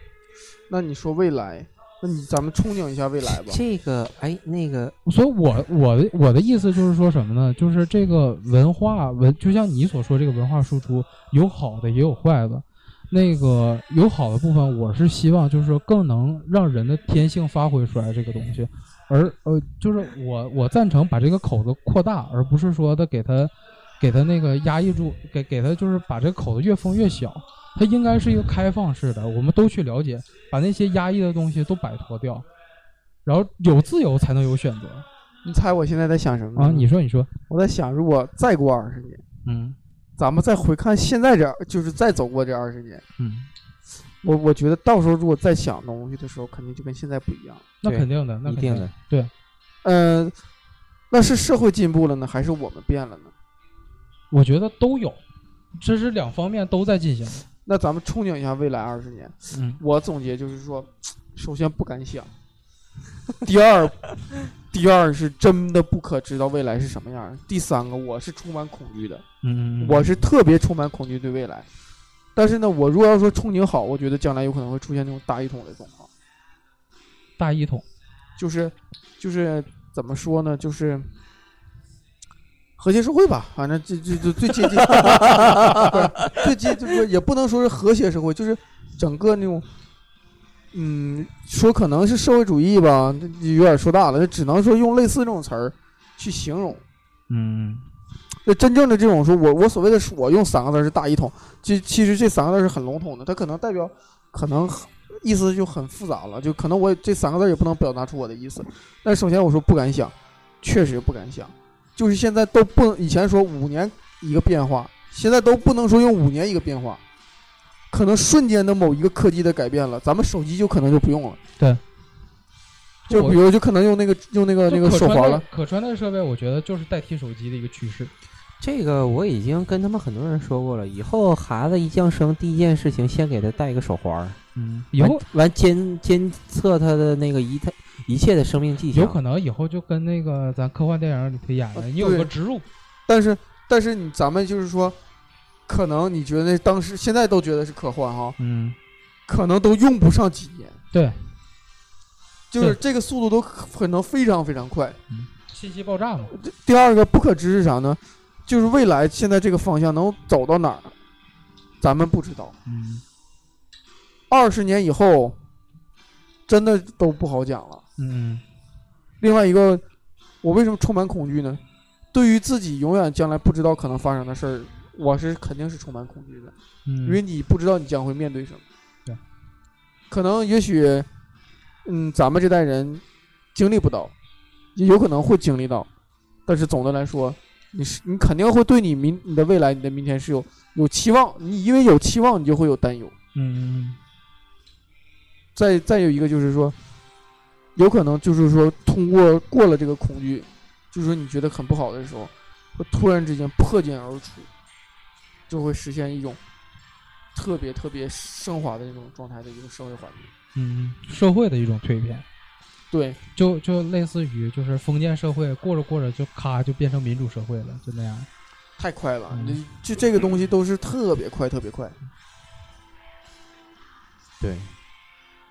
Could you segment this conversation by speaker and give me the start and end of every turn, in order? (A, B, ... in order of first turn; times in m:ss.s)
0:00.7-0:03.6 A
0:03.2-0:05.0 B
0:05.0-0:32.4 C
0:33.2-0:35.0 C
0:35.4-0:39.2 A
0:36.6-0:37.3 C
0:39.4-0:39.8 C
0:40.2-0:43.0 A
0:43.2-0:43.5 C
0:44.2-0:47.7 A
0:47.8-0:49.3 C
0:47.8-0:48.9 B
0:49.8-0:50.3 A
0:51.1-0:53.3 A
0:54.3-0:55.2 C
0:55.8-0:57.4 C
0:57.6-1:02.3 A
0:59.5-0:59.8 C
1:03.4-1:09.2 A
1:09.4-1:10.2 C
1:09.8-1:11.7 A
1:12.3-1:16.1 A
1:17.4-1:17.8 C
1:18.4-1:21.1 A
1:22.8-1:29.7 A
1:30.7-1:36.8 A
1:37.3-1:37.8 C
1:38.4-1:57.0 A
1:57.9-2:01.4 A
2:03.1-2:03.4 C
2:03.1-2:05.4 A
2:04.7-2:08.1 C
2:08.6-2:14.4 B
2:14.5-2:15.2 C
2:15.0-2:19.2 B
2:18.9-2:22.6 C
2:21.7-2:22.3 A
2:23.1-2:25.0 A
2:25.7-2:28.4 A
2:28.4-2:28.8 C
2:29.3-2:30.8 A
2:30.9-2:31.2 C
2:32.5-2:35.0 A
2:35.1-2:36.4 C
2:36.3-2:40.9 A
2:41.8-2:42.6 A
2:42.6-2:43.0 C
2:44.3-2:45.4 A
2:46.5-2:47.8 A
2:48.0-2:48.4 C
2:49.2-2:49.8 A
2:50.4-2:51.6 A
2:52.1-2:56.5 A
2:56.9-2:57.2 C
2:57.0-2:58.6 A
3:00.1-3:01.1 A
3:01.8-3:03.0 A
3:03.5-3:04.1 A
3:04.8-3:05.9 A
3:06.5-3:13.1 A
3:13.3-3:14.0 C
3:15.6-3:16.8 A
3:17.8-3:24.5 A
3:25.5-3:26.4 A
3:27.3-3:30.3 A
3:30.5-3:32.2 C
3:32.9-3:33.2 A
3:33.4-3:38.3 C
3:38.8-3:42.0 A
3:39.3-3:39.6 C
3:44.4-3:44.7 B